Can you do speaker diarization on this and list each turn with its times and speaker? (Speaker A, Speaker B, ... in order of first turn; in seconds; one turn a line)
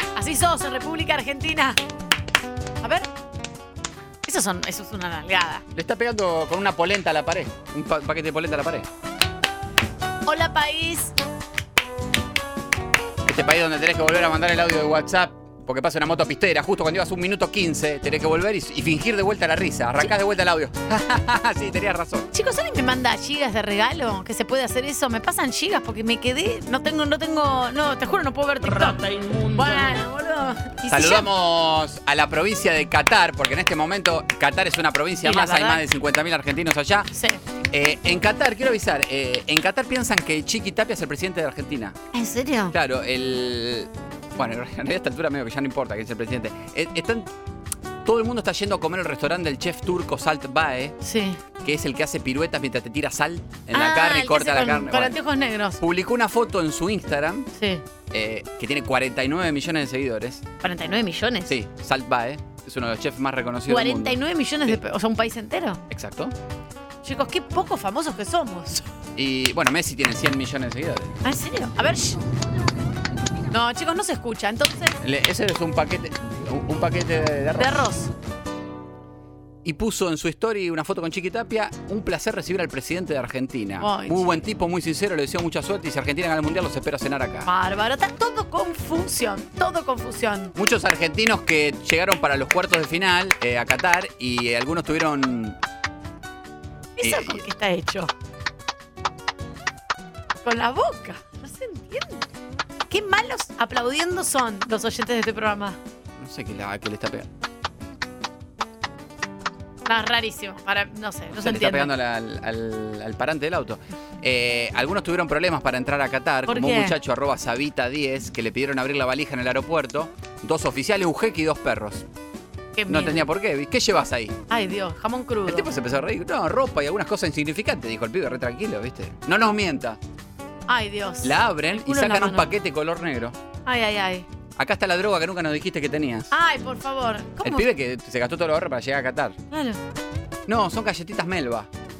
Speaker A: 0.1-1.8
Speaker A: 2.8-3.1
Speaker A: 4.2-5.6
Speaker B: 5.7-8.9
Speaker A: 10.2-11.1
Speaker B: 13.2-22.3
Speaker A: 22.3-31.3
Speaker B: 28.7-29.7
Speaker B: 30.9-37.1
Speaker A: 35.2-35.8
Speaker A: 37.1-37.4
Speaker B: 37.7-42.0
Speaker A: 42.1-42.7
Speaker B: 42.7-47.3
Speaker B: 48.0-51.0
Speaker A: 51.0-51.4
Speaker B: 51.6-55.2
Speaker A: 53.7-55.8
Speaker B: 55.8-57.5
Speaker A: 57.5-57.8
Speaker B: 58.1-60.4
Speaker A: 60.6-61.5
Speaker B: 61.5-64.8
Speaker A: 63.7-65.8
Speaker B: 65.9-66.3
Speaker A: 67.0-68.8
Speaker B: 69.1-71.2
Speaker A: 71.2-72.2
Speaker A: 73.5-75.0
Speaker B: 75.0-77.8
Speaker A: 77.6-78.1
Speaker B: 79.6-87.5
Speaker A: 83.8-84.3
Speaker A: 87.4-90.5
Speaker B: 90.5-95.6
Speaker A: 97.0-98.1
Speaker B: 97.0-97.4
Speaker A: 100.4-102.2
Speaker A: 102.9-105.8
Speaker B: 106.2-107.3
Speaker A: 109.8-111.9
Speaker B: 111.3-122.0
Speaker A: 116.5-117.0
Speaker A: 122.8-123.2
Speaker B: 122.9-124.3
Speaker A: 124.5-125.7
Speaker B: 125.5-130.0
Speaker A: 130.7-132.5
Speaker B: 131.2-133.4
Speaker A: 133.6-134.3
Speaker B: 134.6-136.3
Speaker A: 136.3-137.7
Speaker B: 137.4-139.4
Speaker A: 139.5-139.8
Speaker B: 140.5-141.7